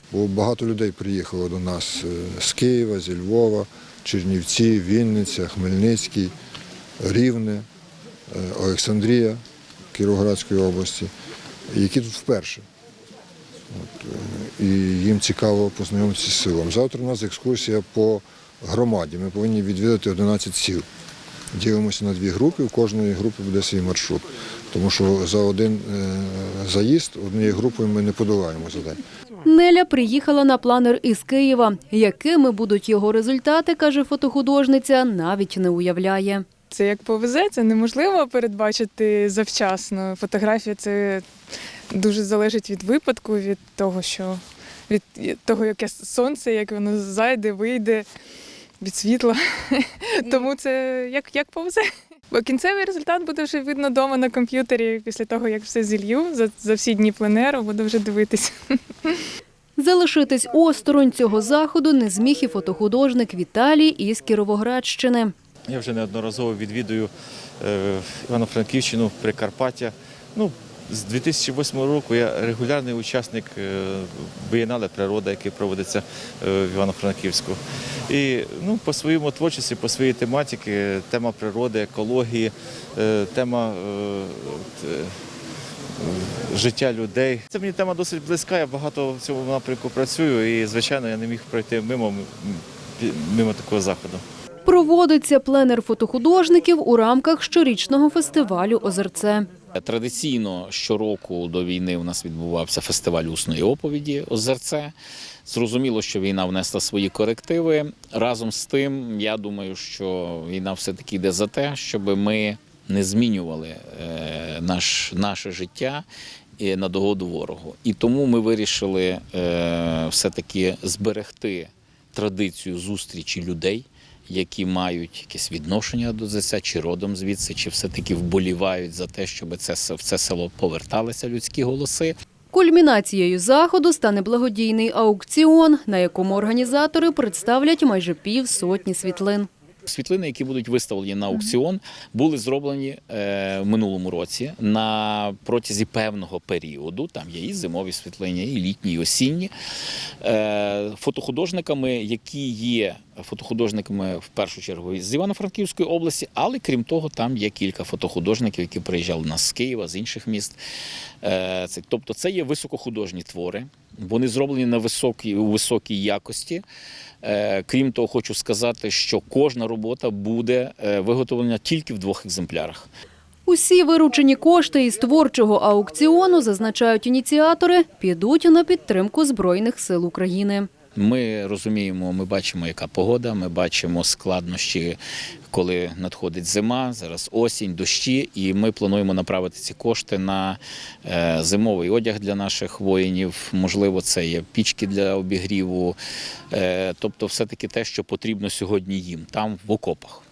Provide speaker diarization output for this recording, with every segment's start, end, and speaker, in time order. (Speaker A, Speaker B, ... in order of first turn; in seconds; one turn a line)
Speaker A: 0.1-6.3
Speaker A: 7.0-7.7
Speaker A: 8.3-9.4
Speaker A: 9.9-11.1
Speaker A: 11.7-12.7
Speaker A: 13.7-20.9
Speaker A: 21.6-29.0
Speaker B: 29.4-36.5
Speaker C: 36.7-41.3
Speaker C: 41.9-48.1
Speaker C: 48.8-59.3
Speaker B: 59.8-65.3
Speaker D: 65.7-67.1
Speaker D: 67.6-85.1
Speaker D: 86.0-94.2
Speaker B: 94.7-99.5
Speaker E: 99.8-104.9
Speaker E: 105.5-116.0
Speaker E: 116.6-132.2
Speaker B: 132.5-139.5
Speaker E: 139.9-149.5
Speaker E: 150.2-160.6
Speaker E: 161.2-166.6
Speaker E: 167.2-172.9
Speaker B: 173.5-180.7
Speaker E: 180.9-185.0
Speaker E: 185.5-196.0
Speaker E: 196.5-200.2